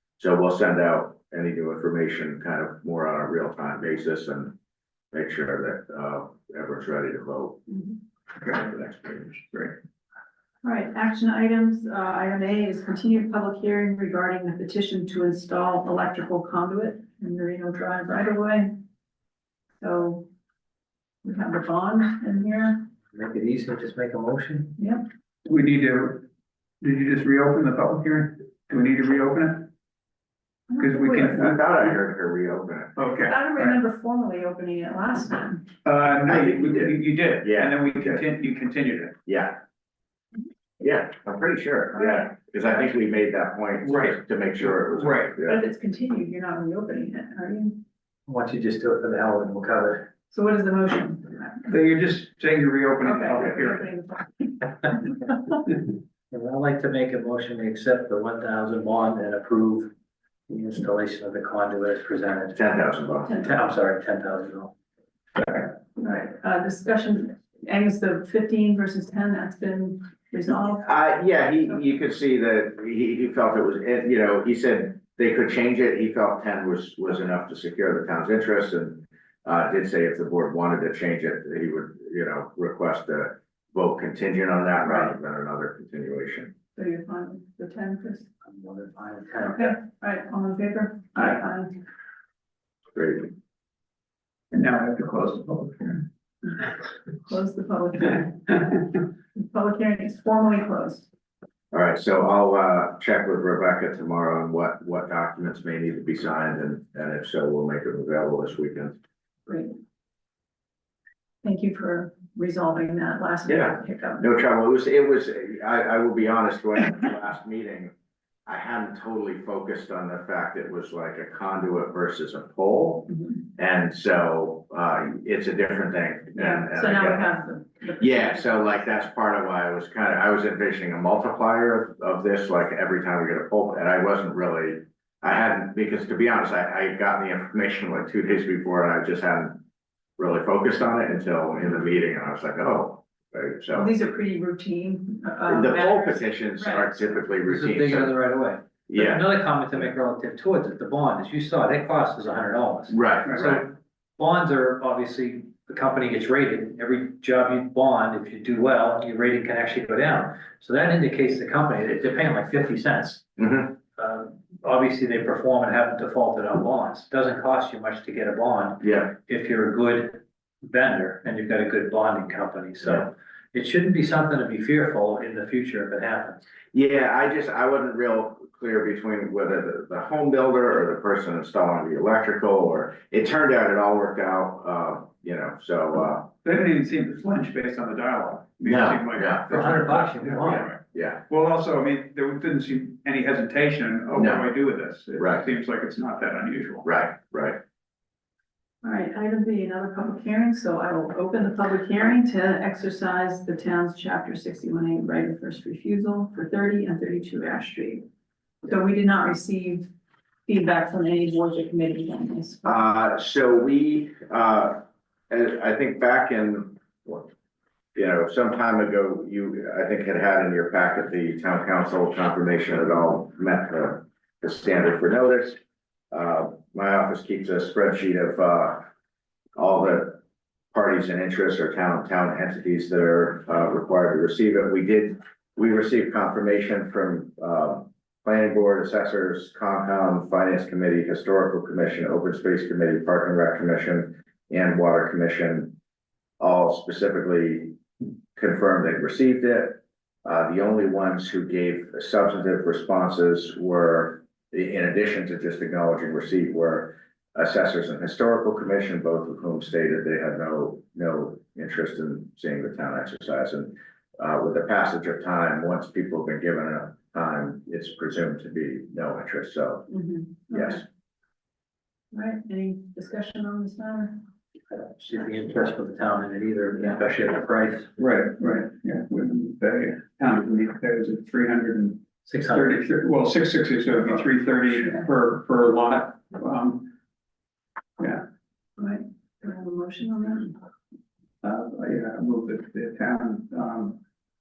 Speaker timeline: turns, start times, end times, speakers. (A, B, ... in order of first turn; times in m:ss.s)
0:00.2-0:04.6 A
0:05.1-0:07.6 A
0:07.7-0:08.0 B
0:08.4-0:09.7 A
0:10.6-0:18.7 B
0:19.8-0:20.3 B
0:21.2-0:22.9 B
0:23.1-0:24.8 C
0:24.8-0:25.0 B
0:25.4-0:26.3 D
0:26.8-0:29.7 D
0:30.7-0:31.4 B
0:30.8-0:31.6 D
0:31.3-0:32.9 A
0:33.0-0:33.8 D
0:33.2-0:35.7 B
0:35.8-0:39.2 D
0:36.3-0:38.2 A
0:39.3-0:39.6 A
0:40.8-0:45.6 A
0:41.9-0:42.3 B
0:43.8-0:44.2 D
0:44.8-0:45.4 D
0:45.4-0:47.8 B
0:48.3-0:50.1 C
0:50.3-0:51.7 B
0:51.7-0:53.8 D
0:53.0-0:55.6 B
0:56.3-0:59.9 C
1:00.5-1:02.6 C
1:02.6-1:03.4 A
1:03.3-1:03.6 B
1:03.4-1:04.7 C
1:06.0-1:11.2 B
1:10.8-1:26.5 A
1:24.8-1:25.1 B
1:26.8-1:28.3 B
1:28.5-1:29.8 C
1:29.4-1:31.8 B
1:33.0-1:33.3 A
1:34.5-1:36.0 D
1:37.2-1:41.1 B
1:41.7-1:49.0 A
1:51.4-1:54.3 B
1:53.5-1:57.9 A
1:58.5-2:07.3 A
2:06.4-2:09.0 B
2:08.0-2:19.6 A
2:20.2-2:23.9 A
2:23.7-2:27.2 B
2:25.5-2:28.1 A
2:27.4-2:43.4 C
2:28.9-2:29.3 A
2:32.9-2:33.7 A
2:43.4-2:43.7 A
2:44.0-2:56.4 C
2:48.8-2:49.1 A
2:56.7-3:06.3 A
3:06.4-3:10.8 D
3:08.6-3:09.9 A
3:09.5-3:10.7 C
3:10.4-3:11.2 A
3:11.3-3:16.9 D
3:14.2-3:14.5 A
3:15.2-3:15.5 A
3:16.8-3:17.6 A
3:18.8-3:28.0 B
3:28.6-3:29.9 B
3:30.5-3:32.8 B
3:32.6-3:37.3 A
3:38.0-3:45.6 A
3:46.1-3:48.9 A
3:49.6-3:50.2 A
3:50.7-4:05.7 A
4:06.4-4:07.8 A
4:08.4-4:29.9 A
4:29.9-4:30.8 B
4:30.5-4:30.8 A
4:32.1-4:34.2 B
4:34.7-4:37.9 C
4:38.0-4:46.9 D
4:42.3-4:42.8 C
4:48.0-4:48.2 D
4:48.8-4:50.6 B
4:51.4-4:54.0 D